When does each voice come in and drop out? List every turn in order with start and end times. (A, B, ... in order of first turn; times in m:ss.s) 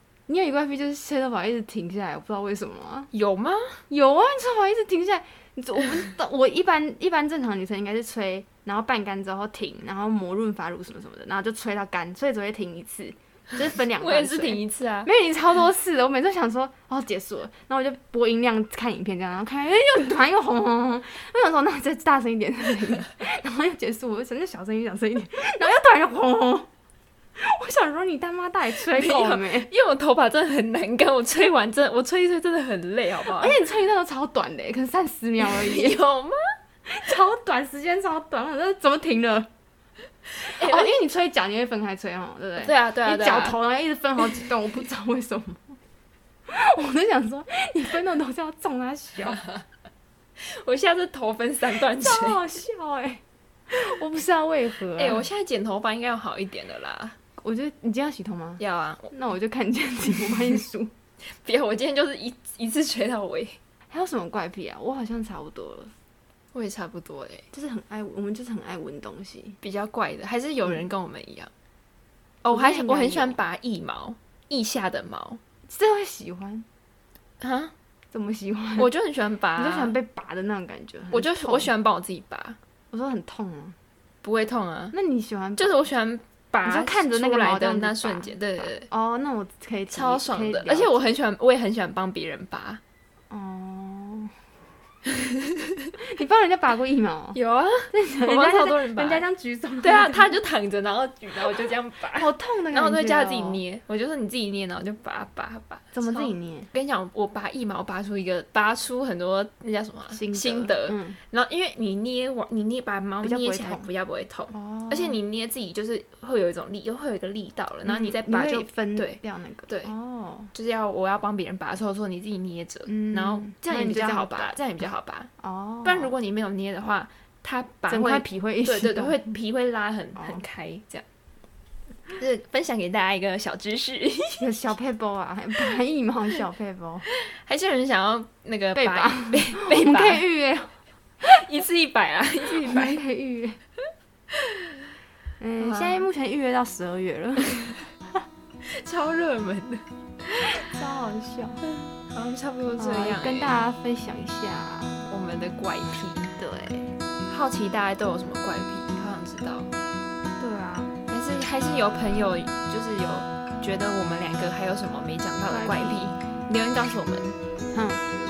0:00.3-0:03.1 A
0:03.1-0:03.8 B
0:03.9-0:26.7 A
0:14.0-0:15.1 B
0:27.4-0:29.7 A
0:28.7-0:33.6 B
0:33.2-0:36.0 A
0:35.4-0:36.4 B
0:36.9-0:39.5 A
0:40.4-0:45.8 A
0:40.4-0:41.0 B
0:42.6-0:43.6 B
0:46.5-0:49.4 A
0:50.4-0:52.4 B
0:51.8-0:55.3 A
0:54.9-0:57.2 B
0:57.4-1:00.9 A
0:58.6-0:59.1 B
1:01.3-1:03.6 B
1:03.9-1:05.9 A
1:06.5-1:07.4 B
1:07.5-1:09.6 A
1:09.6-1:11.5 B
1:12.4-1:15.4 B
1:12.5-1:13.4 A
1:15.7-1:16.6 A
1:17.4-1:17.7 B
1:18.1-1:18.9 A
1:18.8-1:19.9 B
1:19.6-1:21.7 A
1:21.1-1:22.6 B
1:22.9-1:23.8 A
1:24.2-1:25.0 B
1:24.9-1:25.7 A
1:25.6-1:28.9 B
1:26.6-1:30.9 A
1:29.9-1:32.8 B
1:33.3-1:34.4 A
1:36.0-1:37.4 A
1:37.3-1:39.2 B
1:37.9-1:40.4 A
1:39.8-1:59.9 B
1:42.1-1:43.6 A
1:45.9-1:46.7 A
1:50.1-1:51.2 A
1:53.2-1:53.9 A
1:54.5-1:55.2 A
1:57.8-2:00.5 A
2:00.5-2:05.3 B
2:02.9-2:04.6 A
2:05.4-2:06.1 A
2:05.8-2:11.0 B
2:07.9-2:09.4 A
2:10.2-2:10.4 A
2:12.1-2:14.5 B
2:14.4-2:17.0 A
2:17.1-2:20.2 B
2:18.7-2:20.7 A
2:21.2-2:23.0 B
2:22.5-2:23.6 A
2:25.4-2:27.7 A
2:25.6-2:26.0 B
2:28.7-2:29.8 B
2:30.6-2:31.6 A
2:31.9-2:33.5 B
2:32.8-2:35.0 A
2:35.0-2:36.2 B
2:36.4-2:36.9 A
2:37.3-2:39.7 B
2:40.4-2:40.9 A
2:41.1-2:47.4 B
2:45.5-2:46.1 A
2:47.7-2:48.0 A